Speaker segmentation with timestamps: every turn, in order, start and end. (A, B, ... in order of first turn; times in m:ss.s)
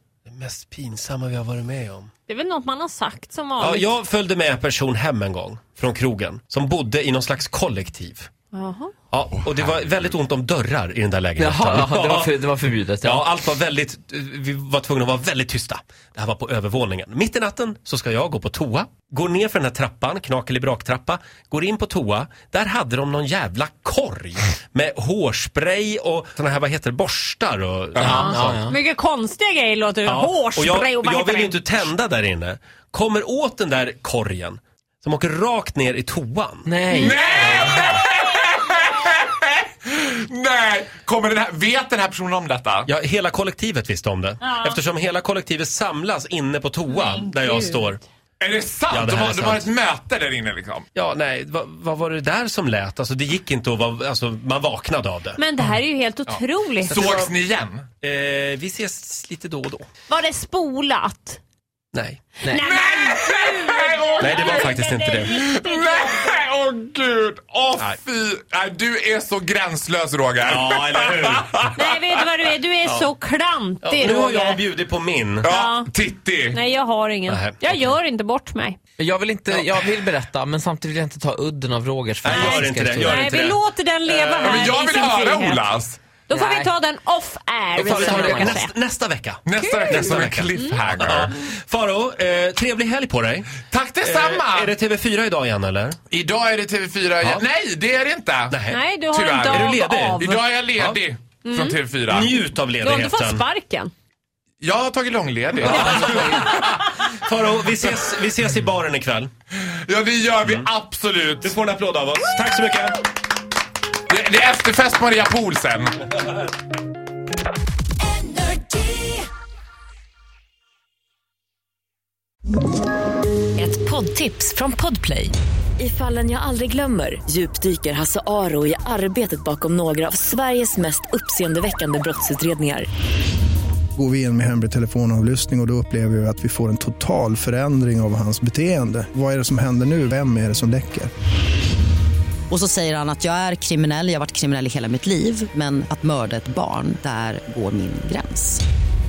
0:00.3-0:02.1 A
0:02.3-0:03.9 B
0:03.6-0:08.3 A
0:08.5-0:08.9 B
0:09.1-0:12.4 A
0:09.4-0:09.7 C
0:11.4-0:13.3 D
0:13.0-0:28.6 A
0:27.9-0:28.3 C
0:28.0-0:31.7 B
0:28.0-0:28.8 D
0:30.1-0:36.7 A
0:36.6-0:38.0 D
0:36.9-0:42.9 C
0:42.9-0:48.0 A
0:44.4-0:44.7 B
0:47.0-0:47.6 B
0:48.4-0:50.9 C
0:48.9-0:49.7 A
0:51.0-0:55.4 A
0:55.4-0:57.0 B
0:56.3-0:57.3 A
0:56.9-0:57.9 C
0:58.0-0:59.9 A
1:00.1-1:01.4 B
1:01.9-1:02.2 A
1:02.4-1:06.3 B
1:02.6-1:12.2 C
1:04.2-1:05.3 A
1:10.5-1:11.7 A
1:11.8-1:14.6 B
1:12.8-1:13.1 A
1:13.8-1:15.5 A
1:15.4-1:16.6 C
1:15.5-1:15.9 B
1:16.5-1:18.8 B
1:17.3-1:17.6 A
1:19.0-1:23.3 D
1:22.2-1:23.6 A
1:22.3-1:25.6 B
1:24.4-1:26.0 C
1:26.3-1:28.7 B
1:26.3-1:26.7 D
1:27.8-1:28.6 D
1:27.8-1:36.0 A
1:29.5-1:31.3 C
1:29.6-1:30.8 B
1:33.7-1:34.7 C
1:36.1-1:38.6 C
1:38.5-1:38.8 A
1:38.7-1:40.5 B
1:39.1-1:42.4 C
1:39.4-1:40.2 A
1:41.4-1:41.8 B
1:42.1-1:43.4 A
1:42.8-1:43.9 B
1:44.6-1:46.9 C
1:45.6-1:49.3 A
1:49.6-1:51.5 C
1:51.4-1:53.0 A
1:54.1-1:55.9 C
1:58.2-1:59.2 E
2:03.6-2:12.9 E
2:14.0-2:21.1 F
2:22.5-2:28.6 G